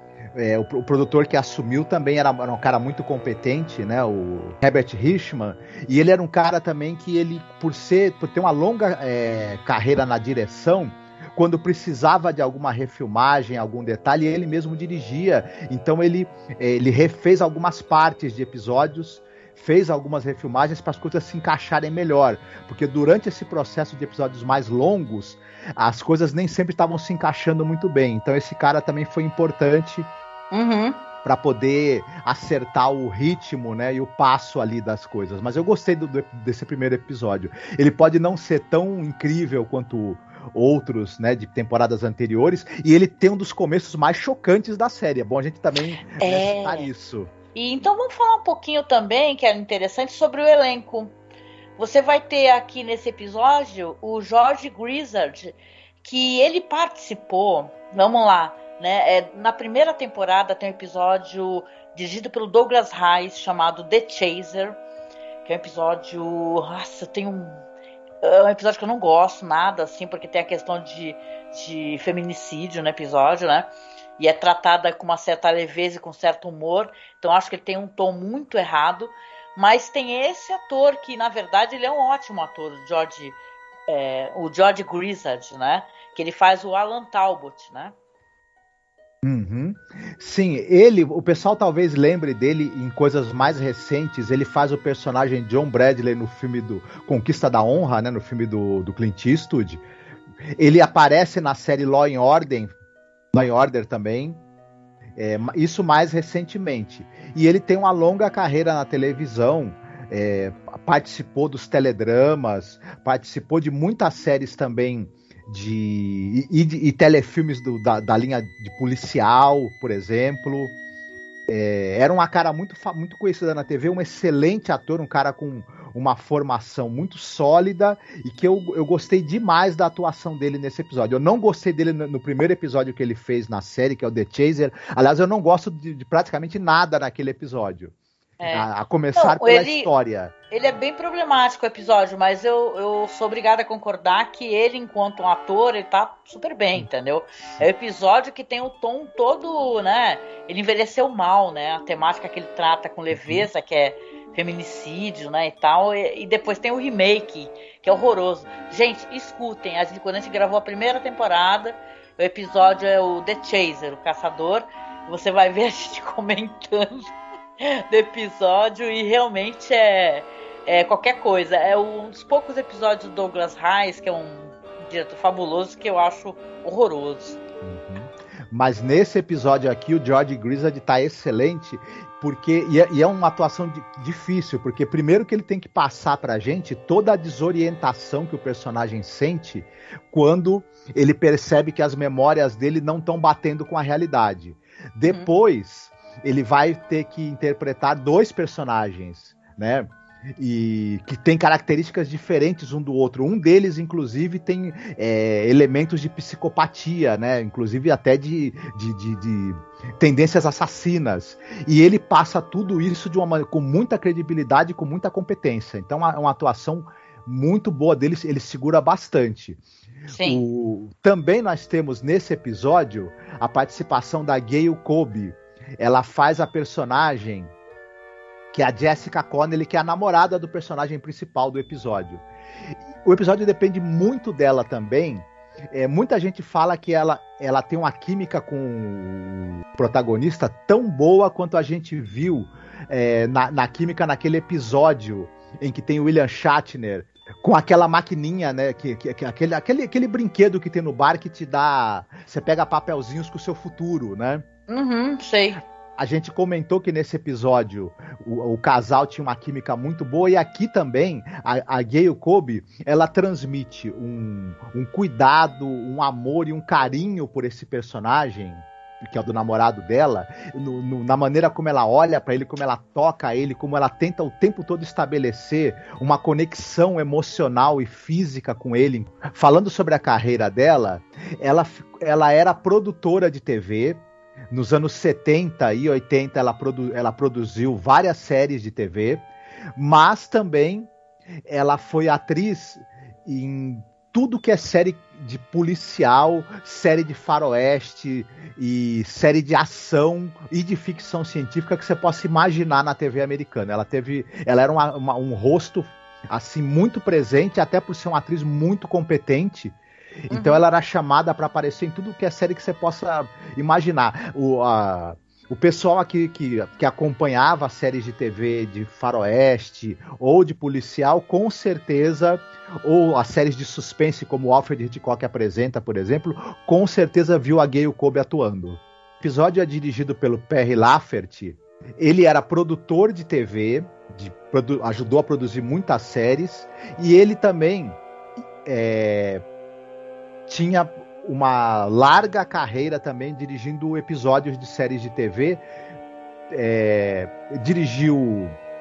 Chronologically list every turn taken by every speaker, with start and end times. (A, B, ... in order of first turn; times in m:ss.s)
0:00.3-0:30.1 A
0:30.5-0:31.0 B
0:31.2-0:47.3 A
0:46.0-0:46.9 B
0:47.5-0:51.1 B
0:51.8-1:04.8 B
1:05.4-1:07.6 B
1:08.2-1:27.9 B
1:29.2-1:39.8 A
1:40.6-1:42.7 A
1:43.3-1:44.4 A
1:45.2-2:00.7 A
2:01.5-2:17.9 A
2:18.4-2:19.9 B
2:18.5-2:20.3 A
2:20.5-2:57.4 B
2:33.1-2:33.5 A
2:57.6-3:39.6 A
3:40.1-3:40.4 B
3:40.2-3:47.5 A
3:48.5-3:52.2 A
3:53.0-4:14.4 A
4:14.7-4:15.6 B
4:16.0-4:50.9 A
4:51.5-5:09.8 A
5:10.3-5:38.0 A
5:10.3-5:10.6 B
5:38.6-5:39.4 A
5:40.5-5:45.6 A
5:46.5-5:48.6 A